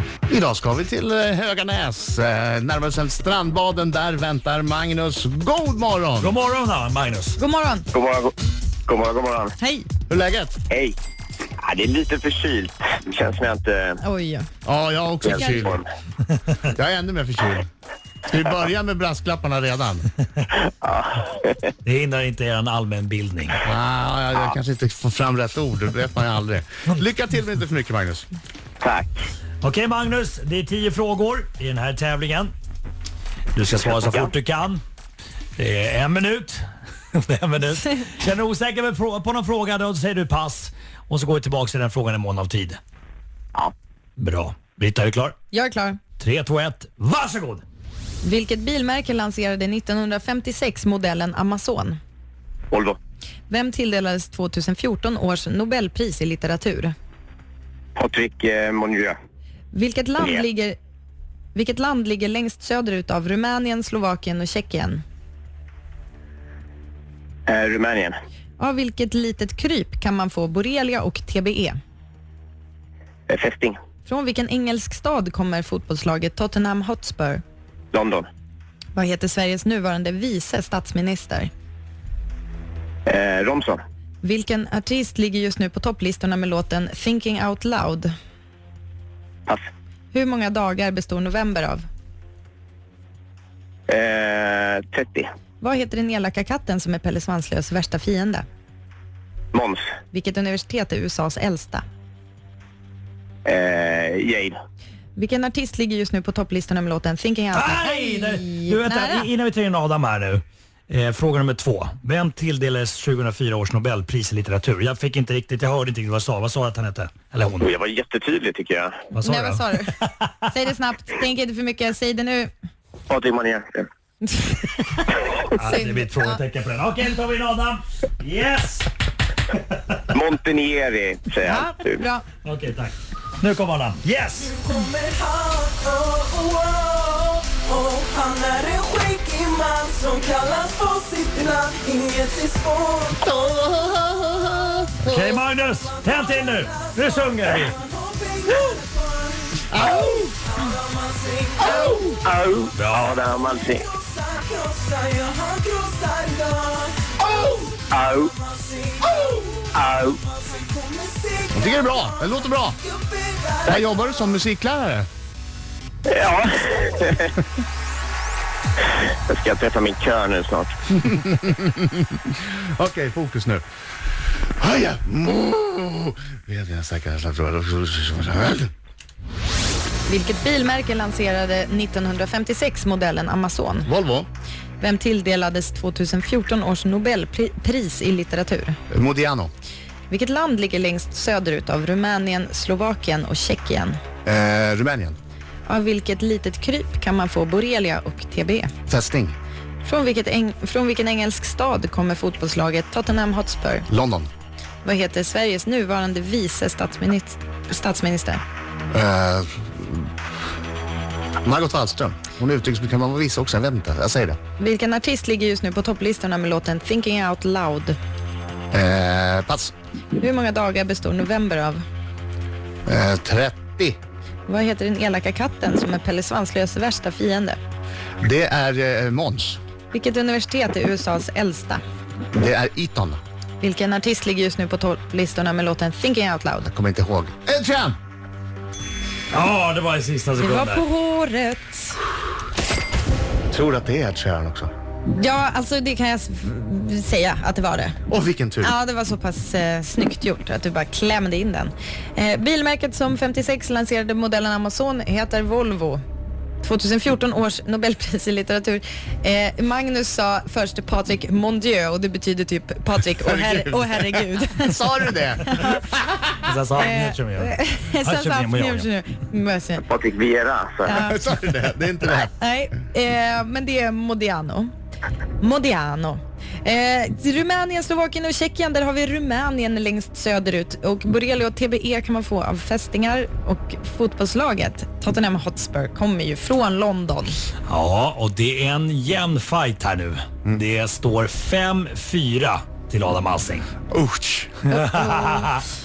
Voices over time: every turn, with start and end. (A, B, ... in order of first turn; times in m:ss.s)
0:00.3-0:06.3 A
0:06.2-0:07.4 B
0:07.4-0:07.9 C
0:07.9-0:08.3 D
0:08.9-0:09.5 D
0:09.6-0:09.9 C
0:10.1-0:10.6 A
0:10.7-0:11.0 D
0:11.6-0:14.0 D
0:14.0-0:14.5 C
0:14.6-0:15.8 A
0:15.2-0:15.8 D
0:15.3-0:15.7 C
0:16.7-0:17.7 A
0:18.2-0:20.1 A
0:20.5-0:21.7 D
0:21.8-0:23.6 B
0:23.6-0:28.2 A
0:28.8-0:29.1 D
0:29.6-0:32.5 B
0:33.5-0:34.8 B
0:33.7-0:34.3 D
0:35.6-0:36.6 B
0:37.1-0:42.8 B
0:44.2-0:45.3 B
0:45.5-0:46.0 C
0:46.2-0:47.6 B
0:48.2-0:52.0 C
0:52.7-0:53.0 D
0:53.5-0:56.9 C
0:58.0-0:59.1 D
0:59.7-1:00.8 C
1:00.2-1:00.4 D
1:01.5-1:05.0 C
1:07.5-1:08.2 D
1:08.6-1:11.8 C
1:13.3-1:13.8 D
1:14.0-1:17.4 C
1:17.9-1:18.2 D
1:18.9-1:21.5 C
1:23.1-1:23.8 D
1:24.2-1:28.1 C
1:30.1-1:31.8 C
1:33.9-1:35.3 D
1:35.6-1:38.4 C
1:39.5-1:39.8 D
1:40.1-1:41.8 C
1:43.4-1:44.6 D
1:45.2-1:49.3 C
1:47.5-1:57.7 B
1:57.6-1:59.0 D
1:59.1-2:00.1 B
1:59.2-2:02.5 C
2:03.1-2:03.9 D
2:04.2-2:06.4 C
2:05.5-2:08.9 B
2:10.1-2:12.0 D
2:11.4-2:12.2 C
2:12.4-2:14.5 B
2:14.7-2:22.7 E
2:23.2-2:25.4 A
2:25.0-2:27.8 B
2:28.0-2:28.8 E
2:29.7-2:30.3 A
2:29.8-2:30.0 D
2:30.9-2:32.0 E
2:31.6-2:32.2 A
2:32.2-2:33.9 D
2:32.7-2:33.2 B
2:34.4-2:37.6 E
2:37.9-2:38.3 D
2:38.4-2:39.6 E
2:39.7-2:40.2 D
2:40.5-2:41.3 E
2:41.5-2:42.8 A
2:43.2-2:43.5 E
2:43.6-2:45.1 A
2:46.0-2:47.4 D
2:48.8-2:50.8 D
2:51.0-2:53.6 A
2:54.6-2:58.7 A
3:00.1-3:03.9 C
3:03.8-3:04.3 A
3:04.8-3:08.8 C
3:08.9-3:09.5 A
3:10.1-3:14.0 C
3:14.2-3:15.2 A
3:15.7-3:18.7 C
3:18.9-3:19.4 A
3:19.8-3:23.9 C
3:23.9-3:24.3 A
3:24.8-3:28.4 C
3:28.9-3:30.1 A
3:31.4-3:34.4 A
3:34.6-3:38.0 C
3:38.7-3:39.7 A
3:40.2-3:41.8 C
3:42.8-3:44.0 A
3:44.5-3:47.6 C
3:48.2-3:49.6 A
3:49.9-3:51.8 C
3:52.3-3:53.2 A
3:53.6-3:56.7 C
3:56.6-3:57.9 A
3:59.3-4:00.8 B
4:00.4-4:02.0 C
4:03.5-4:04.7 A
4:05.1-4:08.0 C
4:08.1-4:08.7 A
4:08.6-4:16.0 C
4:16.6-4:24.8 C
4:23.2-4:26.1 A
4:25.4-4:25.8 C
4:26.4-4:28.9 B
4:26.8-4:29.8 C
4:29.8-4:31.0 D
4:30.8-4:31.2 C
4:30.9-4:32.3 A
4:32.4-4:34.7 C
4:35.4-4:47.4 C
4:47.7-4:53.7 B
4:53.9-4:54.8 A
4:54.7-4:55.6 B
4:54.8-4:55.5 C